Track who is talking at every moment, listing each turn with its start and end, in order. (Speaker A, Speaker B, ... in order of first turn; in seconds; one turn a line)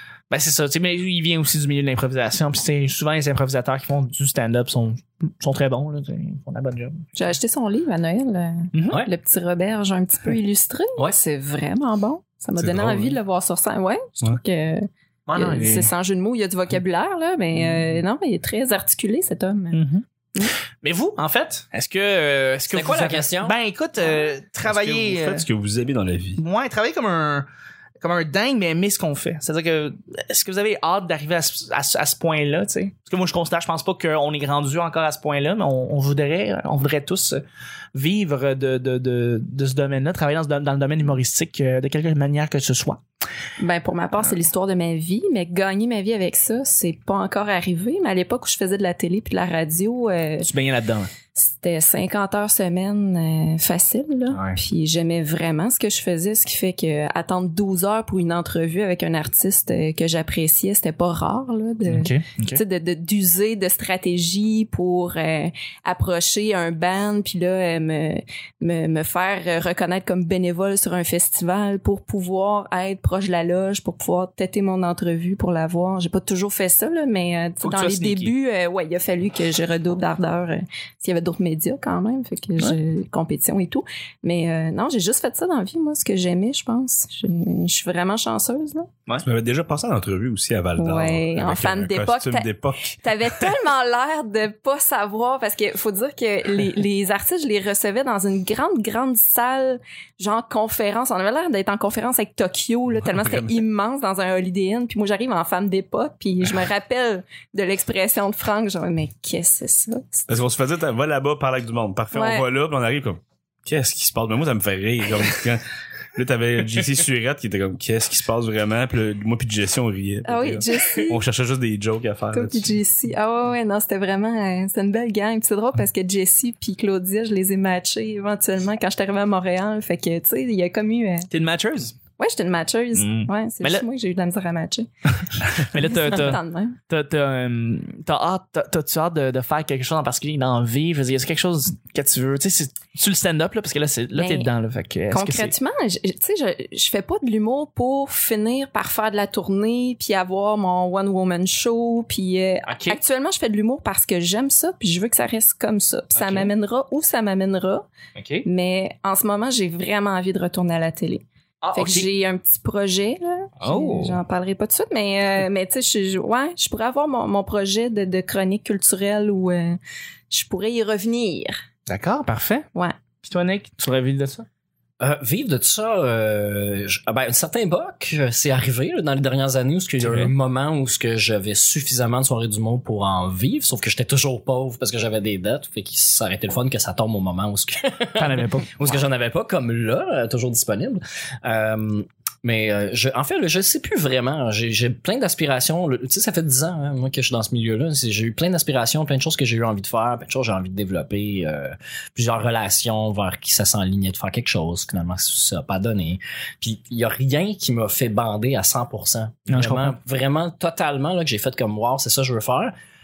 Speaker A: 0.3-7.1
Speaker B: 7.2-20.5
Speaker A: 8.7-9.0
Speaker C: 12.6-13.2
Speaker D: 15.3-15.8
Speaker A: 15.3-15.8
Speaker A: 19.7-20.0
Speaker A: 20.8-25.5
Speaker D: 22.7-23.6
Speaker C: 24.6-26.4
Speaker A: 26.4-27.5
Speaker A: 28.0-37.4
Speaker A: 38.0-43.0
Speaker B: 43.6-50.5
Speaker A: 50.4-51.1
Speaker B: 51.4-88.9
Speaker A: 61.9-62.6
Speaker A: 77.6-78.3
Speaker C: 89.2-93.5
Speaker B: 90.8-92.5
Speaker B: 93.0-110.3
Speaker C: 103.0-103.6
Speaker C: 110.3-115.6
Speaker B: 112.1-112.5
Speaker C: 116.2-122.7
Speaker B: 120.2-121.2
Speaker B: 122.3-131.3
Speaker A: 131.3-131.9
Speaker B: 132.2-134.9
Speaker A: 133.0-133.9
Speaker A: 135.4-145.5
Speaker B: 135.5-136.8
Speaker B: 144.2-144.5
Speaker B: 145.1-157.9
Speaker A: 156.2-156.5
Speaker A: 158.2-158.5
Speaker B: 158.4-169.8
Speaker A: 161.6-162.1
Speaker A: 163.6-164.2
Speaker B: 170.3-171.6
Speaker A: 171.9-172.7
Speaker A: 173.2-174.5
Speaker D: 175.0-212.7
Speaker A: 180.0-180.3
Speaker A: 188.2-188.8
Speaker A: 209.5-210.0